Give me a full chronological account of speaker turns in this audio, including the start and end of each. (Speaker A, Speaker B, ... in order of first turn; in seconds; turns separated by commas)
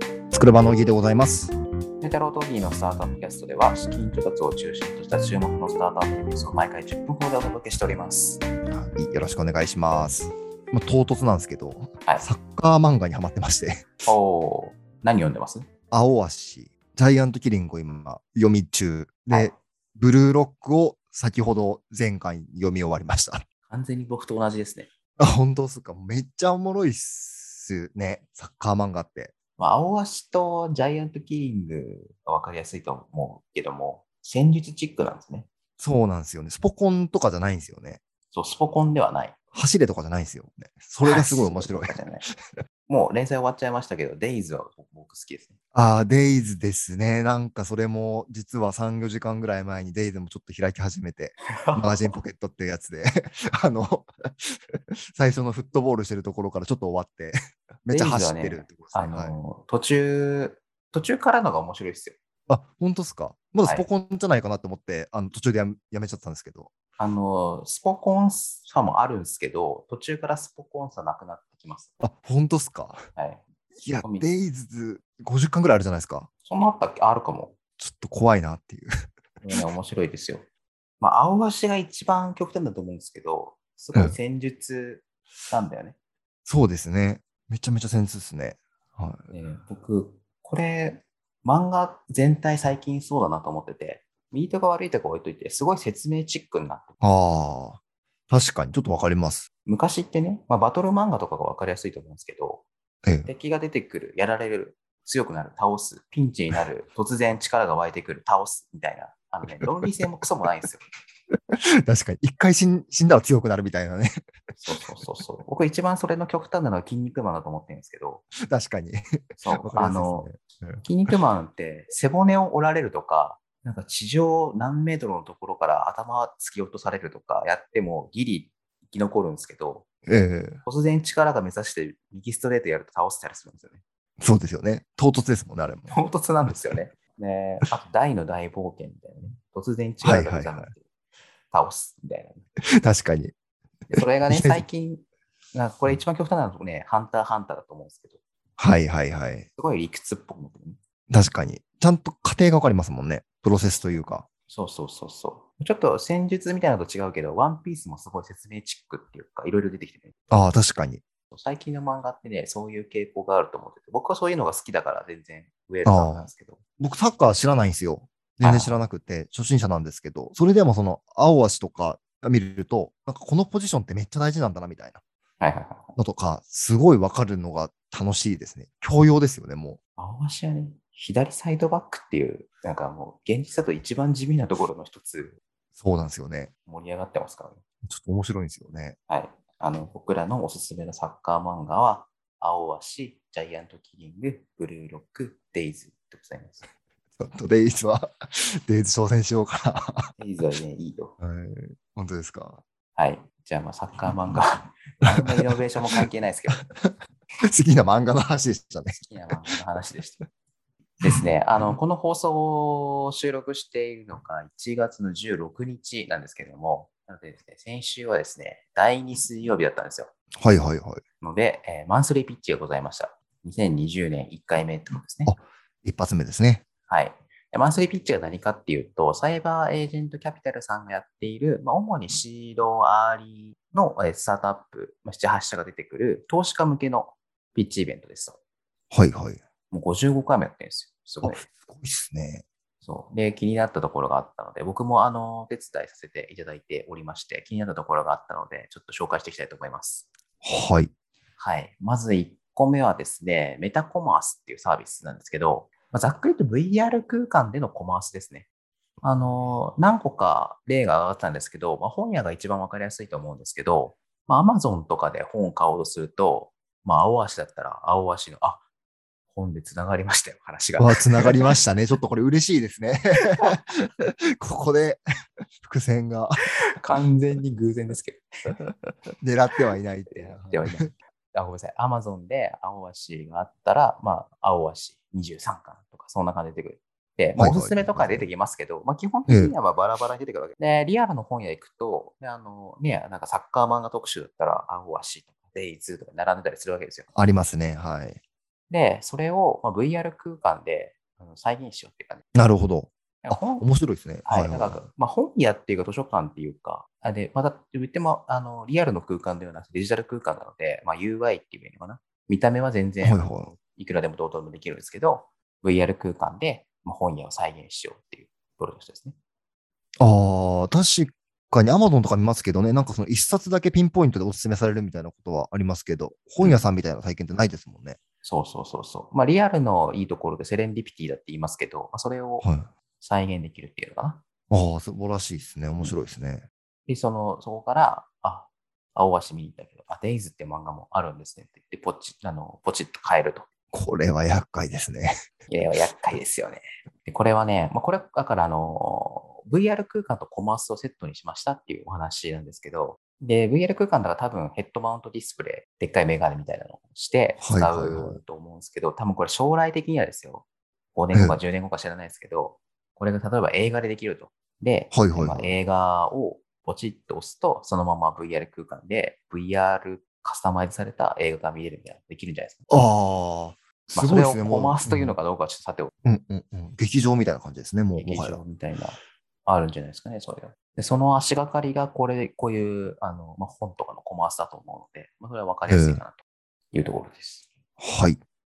Speaker A: 0.3-1.5, Speaker B: 2.0-8.4, Speaker A: 8.7-13.9, Speaker B: 14.1-15.7, Speaker A: 15.9-23.4, Speaker B: 19.3-19.6, Speaker B: 23.7-24.9, Speaker A: 25.2-29.3, Speaker B: 29.6-35.5, Speaker A: 35.8-38.0, Speaker B: 38.3-39.3, Speaker A: 39.5-42.0, Speaker B: 41.0-42.2, Speaker B: 42.9-45.5, Speaker A: 45.7-59.4, Speaker B: 51.6-52.1, Speaker B: 57.9-62.1, Speaker A: 62.5-66.7, Speaker B: 67.0-71.9, Speaker A: 72.0-73.0, Speaker B: 73.2-73.4, Speaker A: 73.8-76.3, Speaker B: 76.4-77.5, Speaker A: 77.8-78.9, Speaker B: 79.4-80.4, Speaker B: 81.0-86.0, Speaker A: 86.5-89.2, Speaker B: 89.3-96.9, Speaker A: 97.0-97.8, Speaker A: 98.3-99.4, Speaker B: 99.7-102.7, Speaker A: 103.0-103.3, Speaker B: 103.2-110.8, Speaker A: 111.8-114.1, Speaker B: 114.5-118.2, Speaker A: 118.4-119.0, Speaker B: 119.4-120.3, Speaker A: 119.6-121.1, Speaker B: 120.8-129.9, Speaker A: 130.1-130.6, Speaker B: 130.6-133.8, Speaker A: 134.2-136.0, Speaker B: 135.9-140.8, Speaker A: 140.0-140.7, Speaker B: 141.5-142.4, Speaker A: 142.8-143.3, Speaker B: 143.9-148.2, Speaker A: 143.9-144.6, Speaker A: 148.6-149.5, Speaker B: 149.6-150.8, Speaker A: 151.1-154.2, Speaker B: 154.5-160.2, Speaker A: 160.3-161.0, Speaker B: 161.3-166.6, Speaker A: 165.8-175.0, Speaker B: 168.4-168.8, Speaker B: 175.4-175.9, Speaker A: 176.0-179.8, Speaker B: 180.0-185.4, Speaker A: 185.8-186.5, Speaker B: 186.7-187.6, Speaker A: 187.8-188.9, Speaker B: 189.1-196.6, Speaker A: 197.2-200.1, Speaker B: 200.2-201.2, Speaker A: 201.2-202.6, Speaker B: 202.9-206.6, Speaker A: 205.0-205.4, Speaker A: 205.9-206.9, Speaker A: 207.4-209.4, Speaker B: 209.1-210.2, Speaker B: 211.0-220.1, Speaker A: 220.4-221.0, Speaker B: 221.2-225.3, Speaker A: 225.3-226.6, Speaker B: 226.9-238.4, Speaker A: 238.9-239.4, Speaker B: 239.7-241.4, Speaker A: 241.2-242.4, Speaker B: 242.8-250.1, Speaker A: 250.4-250.9, Speaker B: 251.4-258.4, Speaker B: 259.0-268.6, Speaker B: 269.3-271.5, Speaker A: 270.8-275.0, Speaker A: 275.6-276.4, Speaker B: 276.8-278.6, Speaker A: 279.2-280.9, Speaker B: 280.1-297.1, Speaker A: 287.4-288.3, Speaker A: 289.3-289.5, Speaker A: 297.1-298.2, Speaker B: 298.7-302.2, Speaker A: 302.3-304.8, Speaker B: 303.2-303.6, Speaker B: 304.2-319.1, Speaker A: 313.0-313.5, Speaker A: 320.0-328.0, Speaker B: 326.4-326.6, Speaker B: 328.2-332.5, Speaker A: 332.4-332.7, Speaker B: 333.0-334.2, Speaker A: 334.5-336.4, Speaker B: 336.9-343.5, Speaker A: 343.7-345.1, Speaker B: 345.5-372.8, Speaker A: 357.4-358.2, Speaker A: 361.1-361.4, Speaker A: 364.9-365.5, Speaker A: 372.7-375.1, Speaker B: 373.9-375.9, Speaker A: 376.0-378.4, Speaker B: 377.9-387.5, Speaker A: 385.7-386.0, Speaker A: 387.8-388.2